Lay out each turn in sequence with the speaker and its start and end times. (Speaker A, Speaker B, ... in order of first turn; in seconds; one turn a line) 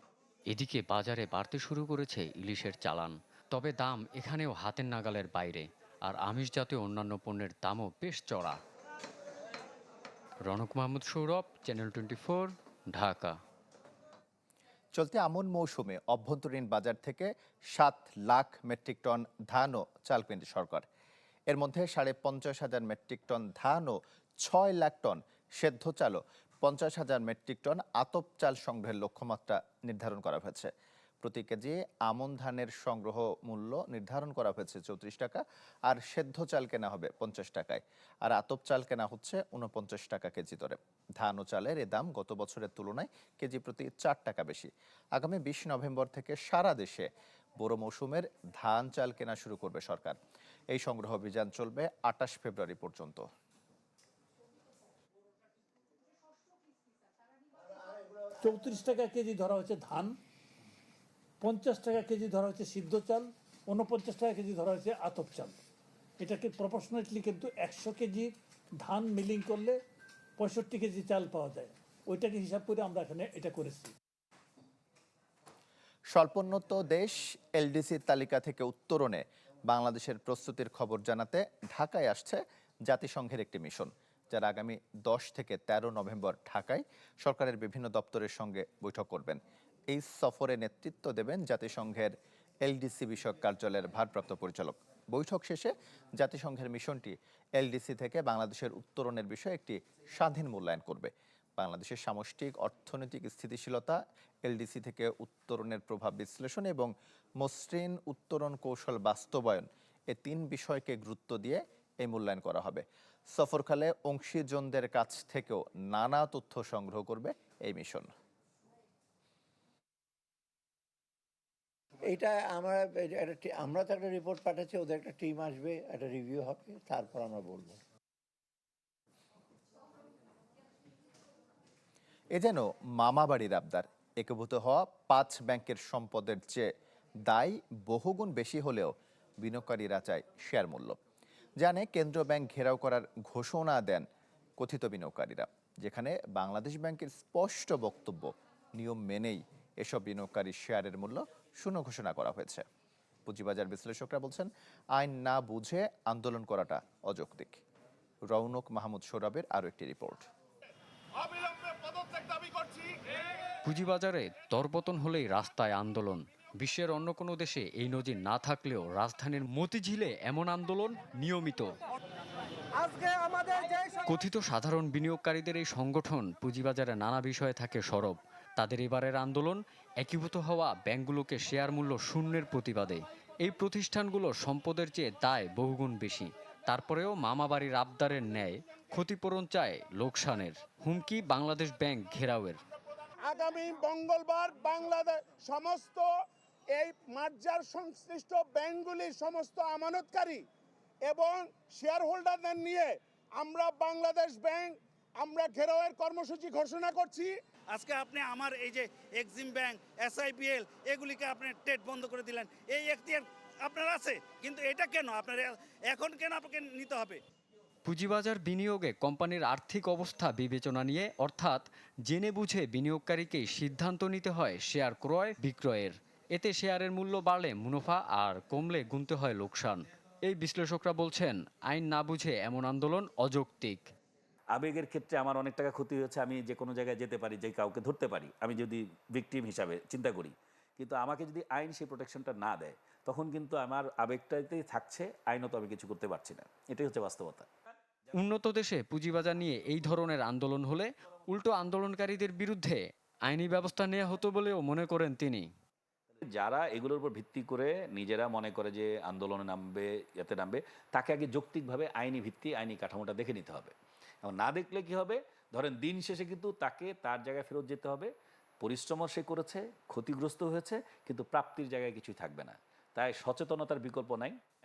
Speaker A: 0.5-8.6
Speaker A: 10.4-13.4
Speaker B: 14.9-20.8
Speaker B: 21.5-30.7
Speaker B: 31.2-50.2
Speaker B: 50.7-53.2
Speaker C: 58.4-60.1
Speaker C: 61.4-65.6
Speaker C: 66.2-69.8
Speaker C: 70.4-73.9
Speaker B: 76.1-118.1
Speaker D: 122.1-127.8
Speaker B: 132.3-136.7
Speaker B: 137.2-141.0
Speaker B: 141.6-144.0
Speaker B: 144.6-152.6
Speaker B: 153.2-157.6
Speaker B: 158.3-160.3
Speaker A: 163.6-171.7
Speaker A: 174.0-192.6
Speaker E: 193.2-196.1
Speaker E: 196.7-200.4
Speaker E: 201.0-207.3
Speaker F: 207.7-217.2
Speaker A: 217.8-233.9
Speaker G: 234.5-247.5
Speaker A: 248.2-255.5
Speaker G: 256.2-274.4